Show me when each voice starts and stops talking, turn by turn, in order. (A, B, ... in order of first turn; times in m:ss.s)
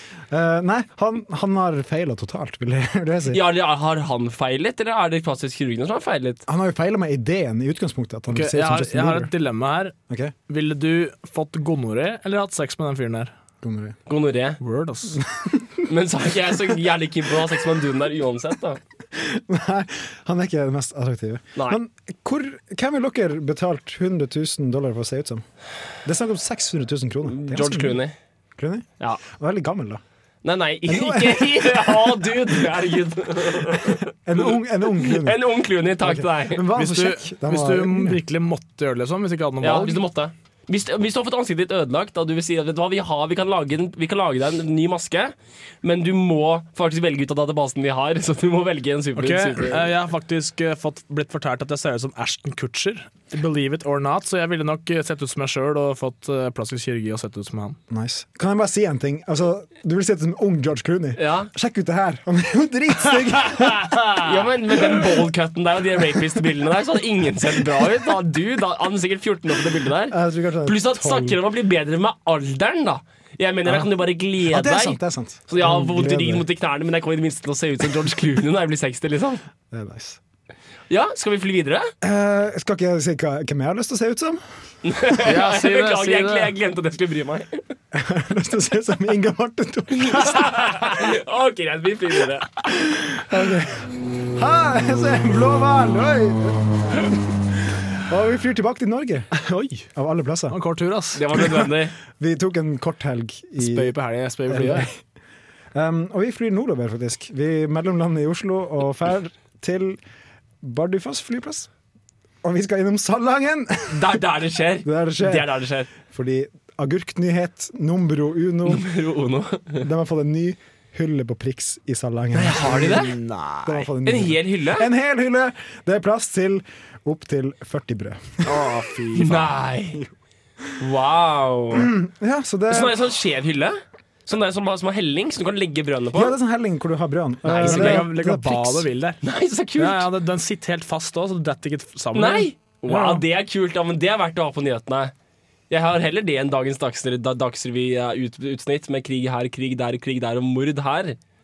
0:00.3-0:03.4 A
0:03.3-0:06.4 B
0:06.5-0:09.3 A
0:08.3-0:10.0 C
0:10.1-0:10.3 A
0:10.5-0:13.3 C
0:13.6-0:14.0 A
0:14.1-0:14.6 B
0:14.6-0:15.2 C
0:15.3-0:15.8 A
0:15.9-0:18.8 B
0:19.1-0:25.4 A
0:26.0-0:28.0 A
0:27.3-0:28.2 B
0:28.6-0:30.0 A
0:30.4-0:34.1 B
0:30.8-0:32.3 A
0:34.2-0:35.4 A
0:35.0-0:36.7 B
0:36.0-0:38.2 A
0:36.8-0:40.0 C
0:39.6-0:49.9 B
0:49.2-0:57.8 C
0:57.9-1:04.2 A
1:01.2-1:01.5 B
1:04.2-1:19.4 B
1:10.1-1:11.4 A
1:14.4-1:16.5 A
1:19.7-1:20.2 A
1:20.9-1:21.9 B
1:22.0-1:24.4 A
1:24.8-1:27.6 B
1:25.2-1:26.5 C
1:27.9-1:31.1 A
1:30.0-1:32.5 B
1:32.6-1:39.3 A
1:39.4-1:39.9 C
1:40.0-1:40.6 A
1:40.5-1:41.5 C
1:41.2-1:42.0 B
1:41.3-1:44.0 A
1:43.6-1:44.9 C
1:44.5-1:44.9 A
1:45.7-1:50.0 A
1:50.6-1:51.7 A
1:52.4-1:54.2 A
1:53.9-1:55.9 B
1:54.8-1:58.9 A
1:58.7-1:59.8 B
1:59.8-2:03.1 A
2:02.4-2:03.1 B
2:02.8-2:03.9 C
2:03.6-2:08.6 A
2:04.0-2:04.9 B
2:08.4-2:09.5 C
2:09.2-2:10.0 B
2:10.8-2:11.9 B
2:11.8-2:13.0 A
2:12.7-2:16.4 B
2:16.1-2:18.9 A
2:17.5-2:18.1 B
2:17.5-2:19.2 C
2:19.2-2:20.1 B
2:19.8-2:22.5 C
2:22.1-2:25.1 B
2:22.9-2:23.2 A
2:25.7-2:31.2 B